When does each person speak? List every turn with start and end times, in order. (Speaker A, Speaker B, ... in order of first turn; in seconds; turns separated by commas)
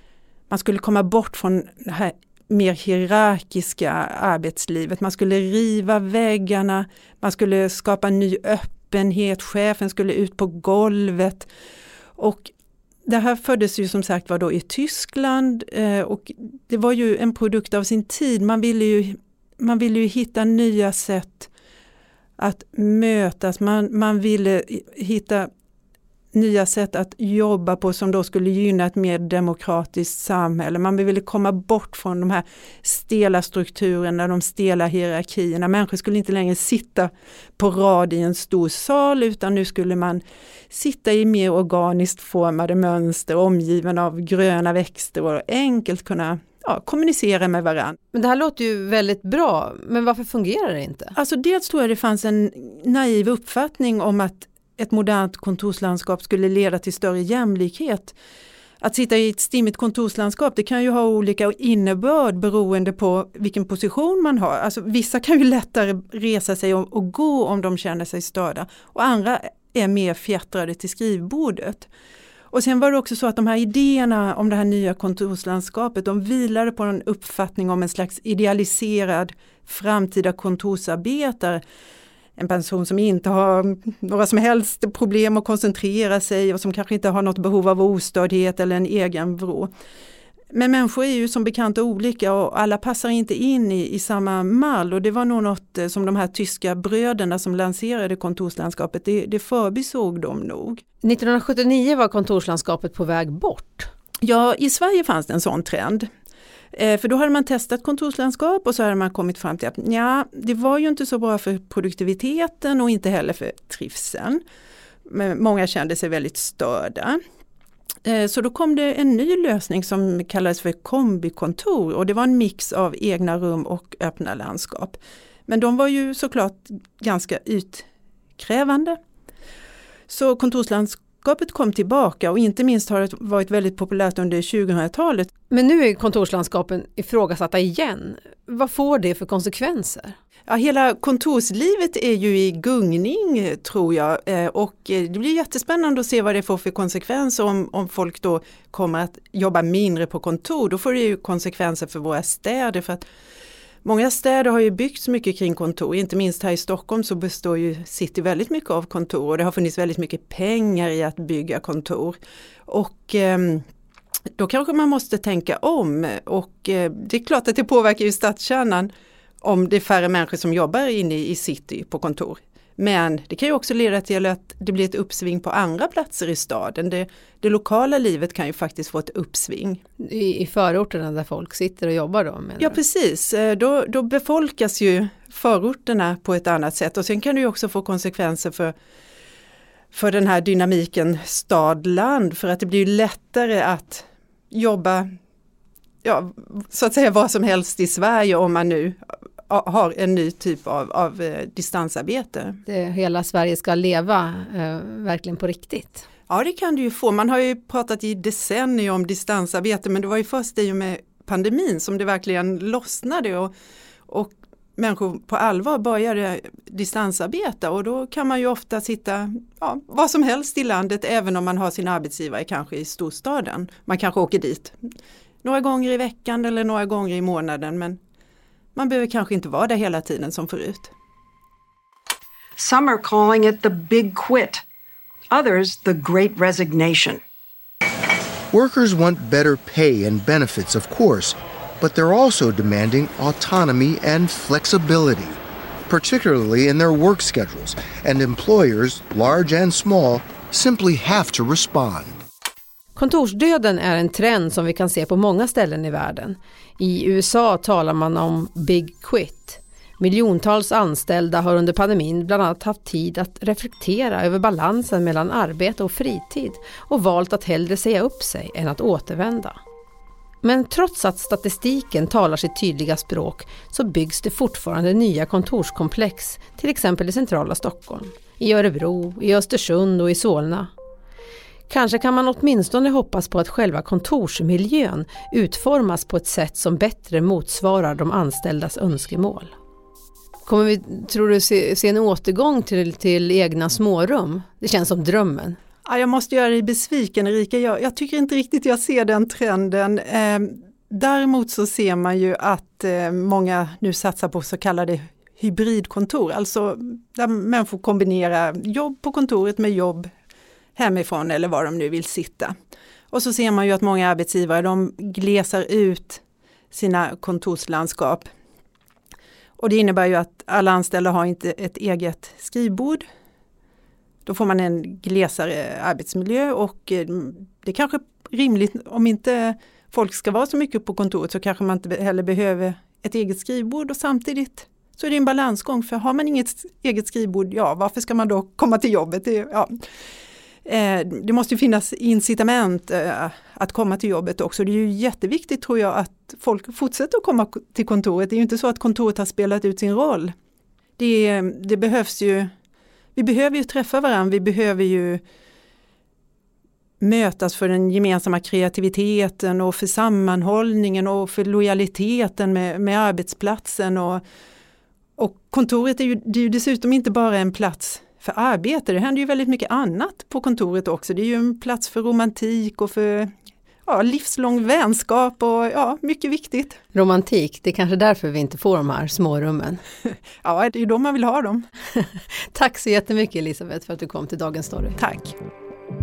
Speaker A: 0.5-11.5, Speaker A: 12.2-12.5, Speaker A: 13.1-21.5, Speaker A: 22.4-25.5, Speaker A: 26.3-48.0, Speaker B: 48.1-51.1, Speaker A: 51.1-58.1, Speaker A: 58.8-71.9, Speaker A: 72.5-81.6, Speaker A: 82.4-89.7, Speaker A: 90.5-100.8, Speaker B: 101.0-103.9, Speaker A: 104.2-106.1, Speaker A: 106.7-114.4, Speaker A: 115.1-117.2, Speaker A: 118.0-127.8, Speaker A: 128.4-129.0, Speaker A: 130.1-135.3, Speaker B: 135.5-140.1, Speaker A: 140.5-153.1, Speaker A: 153.8-163.6, Speaker A: 164.4-168.9, Speaker A: 169.4-179.8, Speaker B: 180.0-182.8, Speaker A: 182.6-188.7, Speaker A: 189.9-195.1, Speaker A: 196.0-202.6, Speaker B: 202.7-206.0, Speaker A: 206.3-213.5, Speaker A: 214.1-224.8, Speaker A: 225.4-228.0, Speaker A: 228.7-230.9, Speaker C: 232.6-234.6, Speaker C: 235.3-237.2, Speaker D: 238.5-252.2, Speaker B: 252.9-269.6, Speaker B: 270.4-280.7, Speaker B: 281.7-289.5, Speaker B: 290.4-295.6, Speaker A: 295.8-310.1, Speaker A: 310.8-312.5, Speaker A: 313.1-316.2, Speaker A: 316.7-318.3, Speaker A: 319.6-323.0, Speaker A: 324.2-339.7, Speaker A: 340.6-350.3, Speaker A: 351.0-352.5, Speaker A: 353.1-355.2, Speaker A: 357.0-364.2, Speaker A: 365.2-373.3, Speaker A: 373.9-376.8, Speaker B: 376.9-379.8, Speaker A: 380.4-381.7, Speaker B: 381.9-385.0, Speaker A: 385.0-385.3